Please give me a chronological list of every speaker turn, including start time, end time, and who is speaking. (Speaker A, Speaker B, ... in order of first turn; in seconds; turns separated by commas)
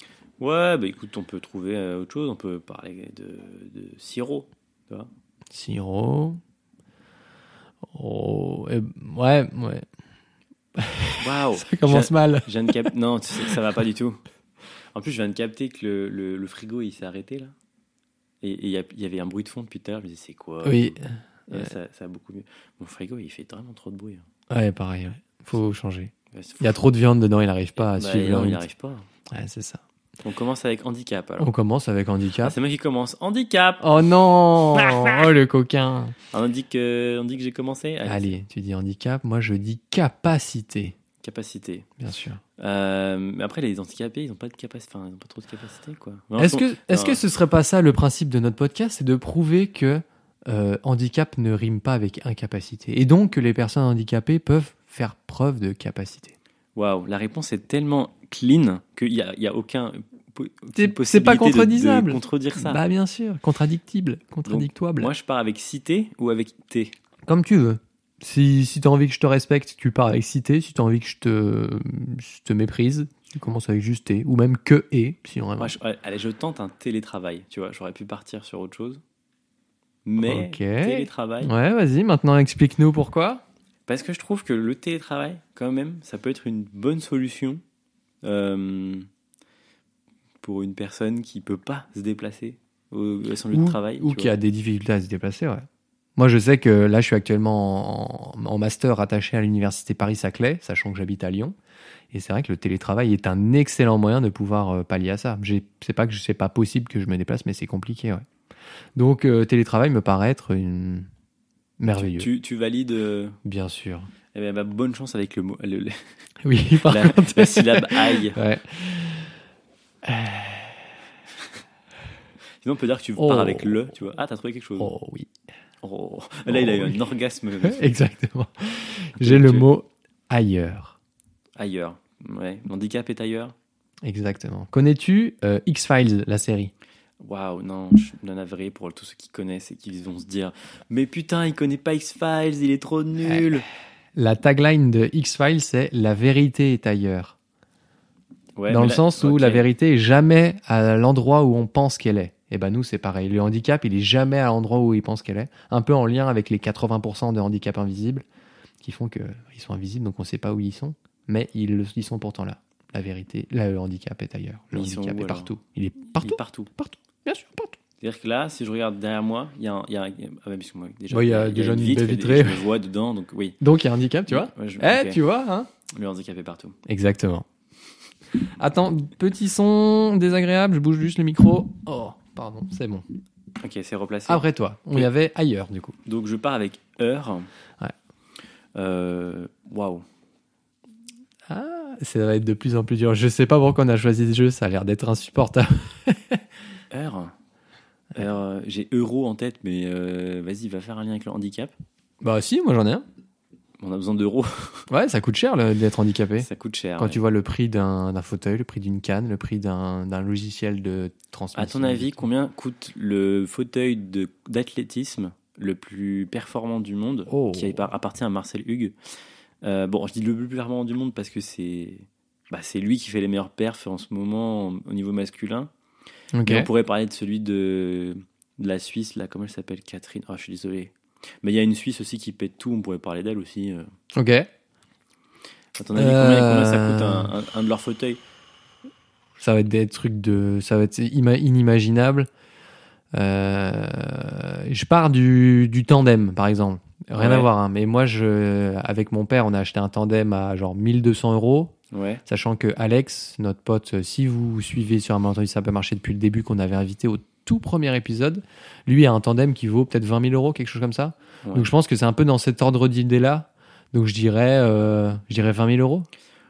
Speaker A: 0.4-5.1, Speaker B: 5.5-6.4, Speaker B: 7.9-9.9, Speaker B: 10.8-12.5, Speaker A: 11.2-14.2, Speaker A: 14.9-17.5, Speaker A: 18.4-24.3, Speaker B: 20.6-21.7, Speaker B: 24.5-28.6, Speaker A: 26.3-26.7, Speaker A: 27.8-29.1, Speaker B: 29.3-29.8, Speaker A: 30.2-31.5, Speaker B: 31.4-32.5, Speaker A: 32.4-33.9, Speaker B: 33.8-36.1, Speaker A: 36.3-38.4, Speaker B: 38.0-41.0, Speaker A: 41.2-41.9, Speaker B: 42.0-42.4, Speaker A: 42.6-47.2, Speaker B: 46.4-56.4, Speaker A: 56.8-62.8, Speaker B: 60.8-65.1, Speaker A: 64.5-67.0, Speaker B: 67.3-75.8, Speaker A: 75.6-79.0, Speaker A: 80.1-81.5, Speaker B: 80.2-83.4, Speaker A: 83.9-87.6, Speaker A: 88.2-89.1, Speaker A: 90.4-94.3, Speaker B: 93.5-101.5, Speaker B: 102.1-108.2, Speaker B: 109.0-111.1, Speaker B: 111.8-112.3, Speaker A: 112.0-113.4, Speaker B: 113.5-114.1, Speaker A: 114.3-116.1, Speaker B: 116.4-119.3, Speaker A: 116.8-118.4, Speaker B: 120.0-120.9, Speaker A: 122.6-124.9, Speaker B: 123.2-123.8, Speaker B: 124.8-125.3, Speaker A: 125.8-127.8, Speaker B: 126.5-127.0, Speaker B: 127.6-131.0, Speaker A: 129.2-129.7, Speaker A: 131.6-133.5, Speaker B: 134.0-136.7, Speaker A: 137.2-143.7, Speaker B: 144.2-147.4, Speaker A: 148.6-149.7, Speaker B: 148.7-158.2, Speaker B: 158.8-167.8, Speaker A: 164.7-165.6, Speaker A: 166.2-166.7, Speaker A: 168.0-173.6, Speaker B: 171.1-172.7, Speaker B: 173.6-175.7, Speaker A: 174.3-175.2, Speaker A: 175.9-176.8, Speaker B: 176.9-177.5, Speaker B: 178.4-183.1, Speaker A: 183.6-184.4, Speaker B: 184.3-186.0, Speaker A: 186.1-187.5, Speaker A: 188.8-190.0, Speaker B: 191.5-196.4, Speaker A: 196.9-197.3, Speaker A: 198.2-201.7, Speaker B: 202.2-203.0, Speaker A: 203.8-204.9, Speaker B: 204.9-212.3, Speaker A: 206.4-207.2, Speaker A: 211.6-218.9, Speaker B: 217.3-217.8, Speaker A: 219.6-225.7, Speaker B: 226.3-226.7, Speaker A: 226.4-233.9, Speaker B: 234.1-234.5, Speaker A: 235.8-238.2, Speaker B: 236.0-237.3, Speaker B: 239.4-242.3, Speaker B: 243.1-251.8, Speaker A: 247.2-247.5, Speaker A: 251.9-252.2, Speaker B: 252.3-266.1, Speaker A: 261.4-261.7